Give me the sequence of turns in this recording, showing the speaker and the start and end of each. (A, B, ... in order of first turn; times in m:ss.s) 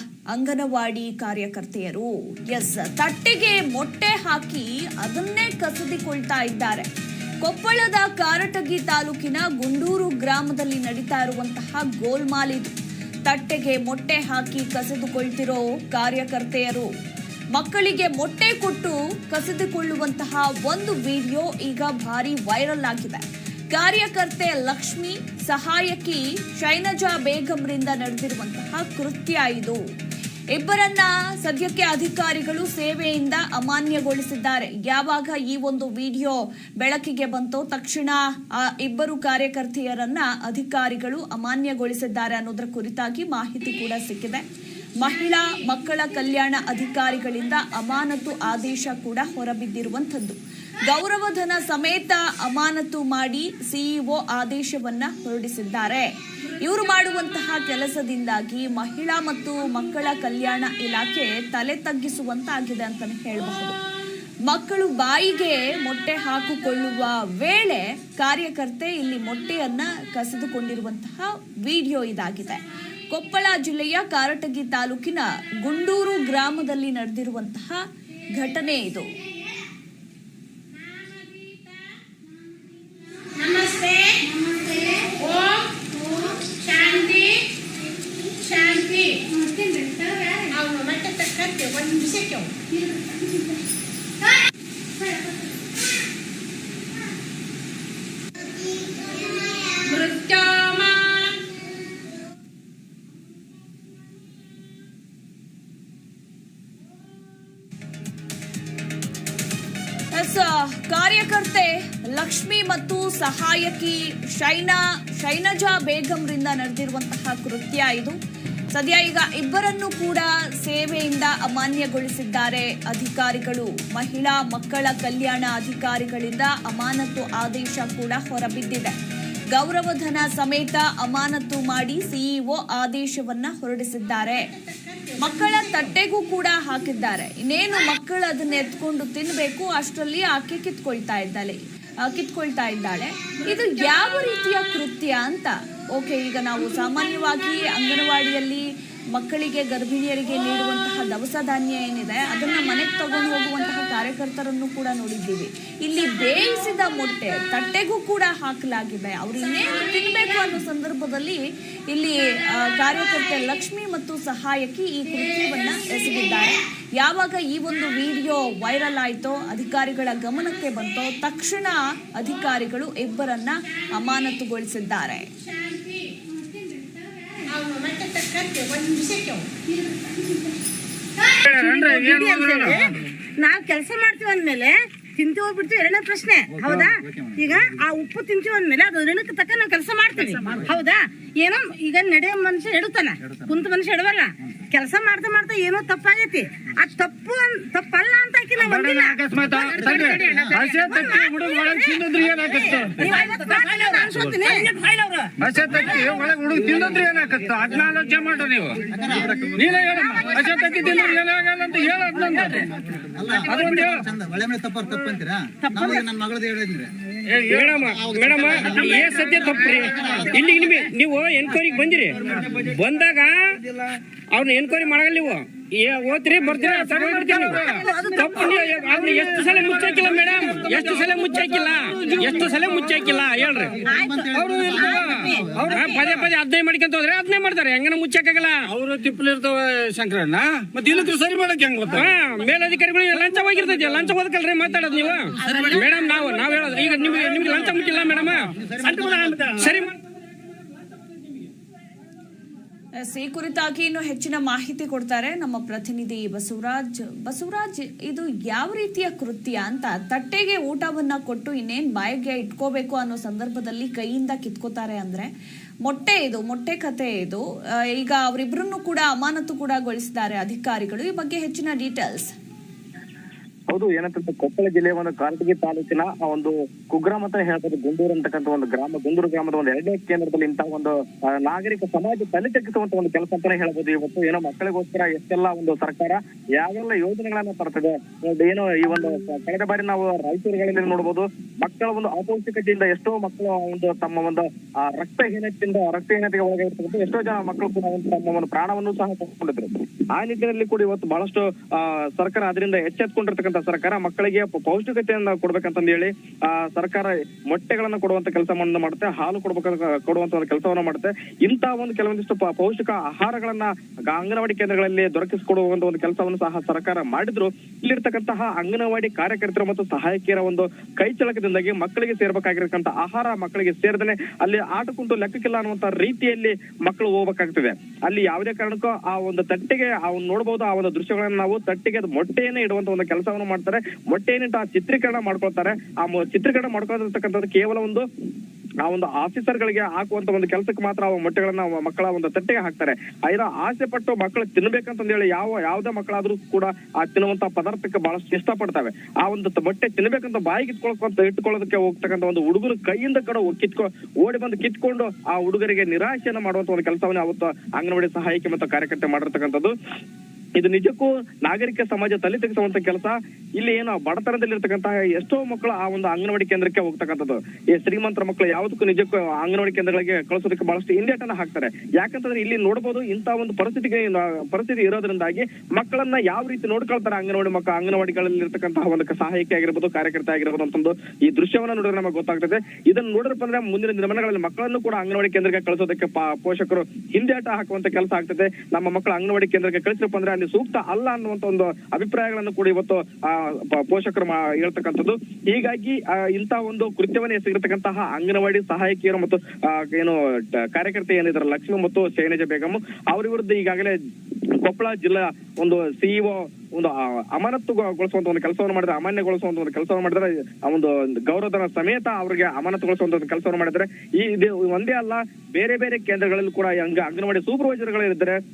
0:00.3-0:06.9 A
0:07.4-0:12.7 A
0:13.3-0:16.9 A
0:17.6-0:23.2 A
0:23.7-0:29.8 A
0:30.5-0:44.4 A
0:45.0-0:56.1 A
0:56.6-1:03.8 A
1:04.5-1:19.1 A
1:20.9-1:21.7 B
1:23.3-1:27.5 B
1:28.3-1:29.4 B
1:29.4-1:30.5 C
1:30.5-1:32.6 B
1:39.8-1:41.3 B
1:50.1-1:58.2 A
1:58.7-2:08.9 A
2:09.5-2:14.5 A
2:14.8-2:15.1 B
2:15.2-2:55.3 A
2:55.4-2:56.2 B
2:56.4-2:57.4 C
2:57.5-2:59.6 B
3:00.0-3:00.3 C
3:01.2-3:26.3 C
3:01.6-3:02.2 D
3:18.7-3:22.8 D
3:25.4-3:28.8 D
3:28.9-3:29.6 E
3:29.6-3:32.6 D
3:29.9-3:31.1 C
3:33.0-3:36.9 E
3:33.5-3:34.0 D
3:35.6-3:36.0 C
3:37.4-3:43.6 F
3:44.3-3:53.7 F
3:47.1-3:48.9 C
3:53.8-3:56.1 C
3:54.3-3:54.7 E
3:54.5-3:58.7 F
3:58.7-4:01.9 D
4:01.8-4:09.9 F
4:13.0-4:25.3 A
4:25.8-4:32.3 A
4:33.7-5:38.0 G
5:38.8-5:59.7 G
6:00.6-6:44.0 G
6:44.6-6:58.4 G